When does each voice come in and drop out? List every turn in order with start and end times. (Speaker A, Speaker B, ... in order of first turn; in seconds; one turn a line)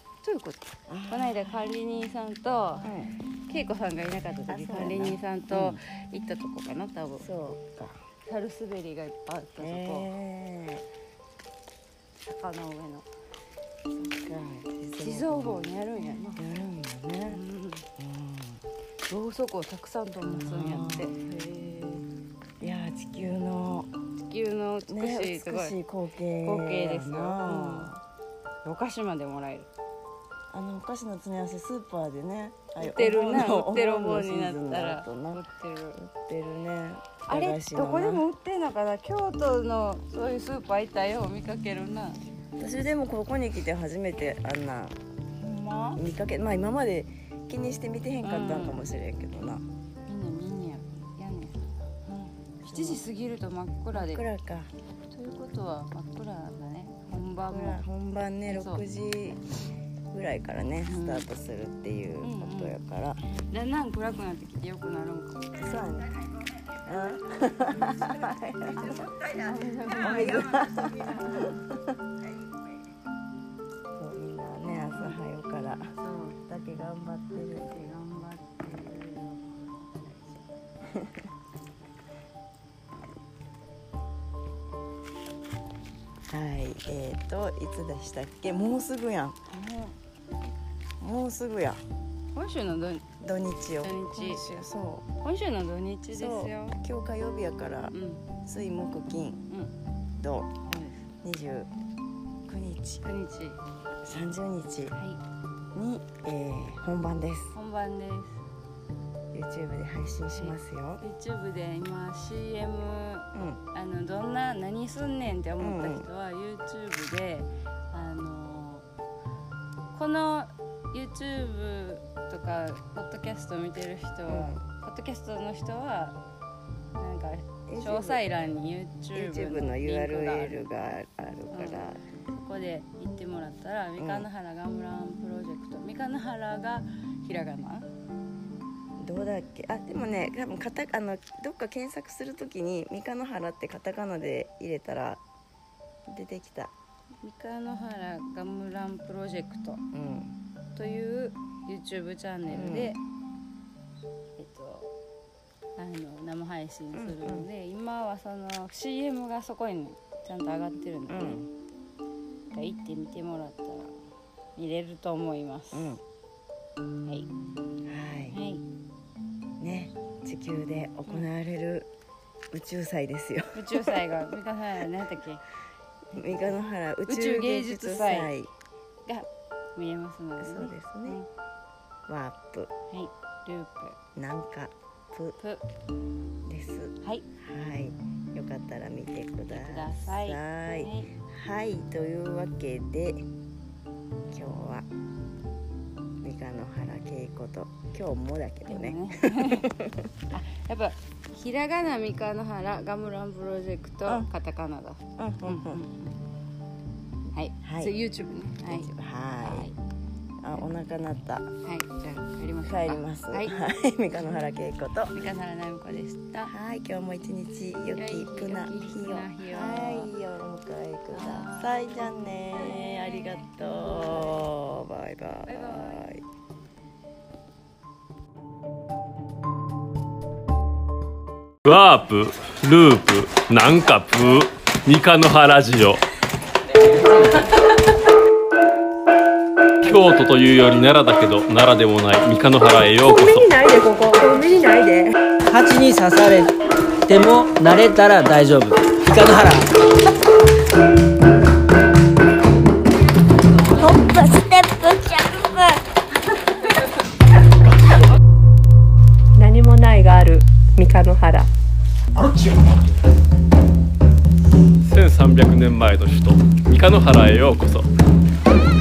Speaker A: 0.2-2.9
Speaker B: 0.9-1.6
Speaker B: 2.8-3.1
Speaker A: 3.5-7.2
Speaker B: 4.5-5.8
Speaker B: 7.2-8.0
Speaker A: 8.2-10.1
Speaker B: 9.6-10.8
Speaker A: 12.2-13.1
Speaker B: 13.9-15.7
Speaker A: 15.0-16.4
Speaker B: 16.4-17.4
Speaker A: 17.3-17.9
Speaker B: 18.0-18.6
Speaker A: 19.1-22.0
Speaker B: 20.4-21.2
Speaker B: 22.6-23.9
Speaker A: 24.2-25.8
Speaker B: 24.9-28.0
Speaker A: 26.4-27.9
Speaker A: 28.6-29.7
Speaker B: 30.5-35.4
Speaker A: 32.8-36.0
Speaker B: 36.0-38.3
Speaker A: 37.3-42.2
Speaker B: 42.6-45.0
Speaker A: 45.4-46.0
Speaker B: 45.9-49.6
Speaker A: 48.2-48.8
Speaker A: 50.1-54.3
Speaker B: 52.6-53.0
Speaker B: 53.9-54.7
Speaker A: 55.1-57.8
Speaker B: 57.5-59.4
Speaker A: 58.5-58.8
Speaker B: 60.1-63.2
Speaker A: 60.9-61.2
Speaker A: 62.2-62.8
Speaker A: 63.5-66.3
Speaker B: 65.5-66.1
Speaker B: 66.8-69.1
Speaker A: 67.3-71.6
Speaker B: 69.9-71.6
Speaker B: 74.0-75.9
Speaker A: 76.0-76.4
Speaker B: 76.5-77.7
Speaker A: 77.4-80.5
Speaker B: 86.3-89.4
Speaker A: 89.5-90.0
Speaker B: 91.0-91.8
Speaker A: 92.3-93.0
Speaker B: 93.2-95.0
Speaker A: 93.8-94.4
Speaker A: 95.2-96.8
Speaker B: 96.1-99.4
Speaker A: 97.9-98.2
Speaker B: 100.2-100.5
Speaker A: 100.7-101.0
Speaker B: 101.2-101.7
Speaker B: 102.5-103.0
Speaker A: 103.0-103.6
Speaker B: 104.0-105.0
Speaker A: 104.9-105.2
Speaker B: 105.7-107.5
Speaker A: 107.5-108.4
Speaker B: 109.3-111.0
Speaker A: 110.3-118.8
Speaker B: 113.3-113.6
Speaker B: 115.6-116.1
Speaker A: 119.9-126.2
Speaker B: 124.3-124.6
Speaker A: 127.0-130.6
Speaker B: 127.7-128.2
Speaker B: 129.1-132.0
Speaker A: 131.5-137.9
Speaker B: 134.0-134.3
Speaker B: 139.0-145.2
Speaker B: 146.1-146.7
Speaker A: 147.2-149.8
Speaker B: 149.9-150.3
Speaker A: 150.7-153.0
Speaker B: 152.5-152.9
Speaker A: 154.4-154.9
Speaker A: 155.8-161.4
Speaker B: 156.9-157.5
Speaker B: 161.1-161.5
Speaker A: 162.5-163.9
Speaker A: 164.6-165.9
Speaker B: 165.7-166.0
Speaker A: 167.0-167.3
Speaker B: 167.8-168.4
Speaker A: 168.3-168.6
Speaker B: 169.6-171.9
Speaker B: 172.5-174.0
Speaker A: 173.5-175.4
Speaker A: 176.1-178.3
Speaker B: 176.1-178.5
Speaker A: 179.1-181.3
Speaker B: 180.4-181.2
Speaker B: 182.1-182.7
Speaker A: 182.9-184.0
Speaker B: 184.1-185.4
Speaker B: 186.4-193.2
Speaker A: 189.5-191.1
Speaker B: 194.3-194.8
Speaker B: 196.2-200.1
Speaker A: 198.7-199.7
Speaker A: 200.3-206.2
Speaker B: 205.2-205.8
Speaker A: 207.3-208.9
Speaker B: 207.6-208.0
Speaker B: 208.6-209.7
Speaker A: 209.4-209.8
Speaker B: 210.4-211.5
Speaker A: 211.6-213.5
Speaker B: 212.6-215.2
Speaker A: 215.1-216.5
Speaker B: 216.4-226.2
Speaker A: 217.9-220.1
Speaker A: 221.1-224.4
Speaker A: 225.4-226.1
Speaker C: 231.7-236.0
Speaker C: 239.8-243.5
Speaker D: 243.1-245.2
Speaker E: 245.4-246.5
Speaker E: 247.1-249.7
Speaker F: 253.8-255.8
Speaker D: 259.4-261.5
Speaker C: 264.8-267.9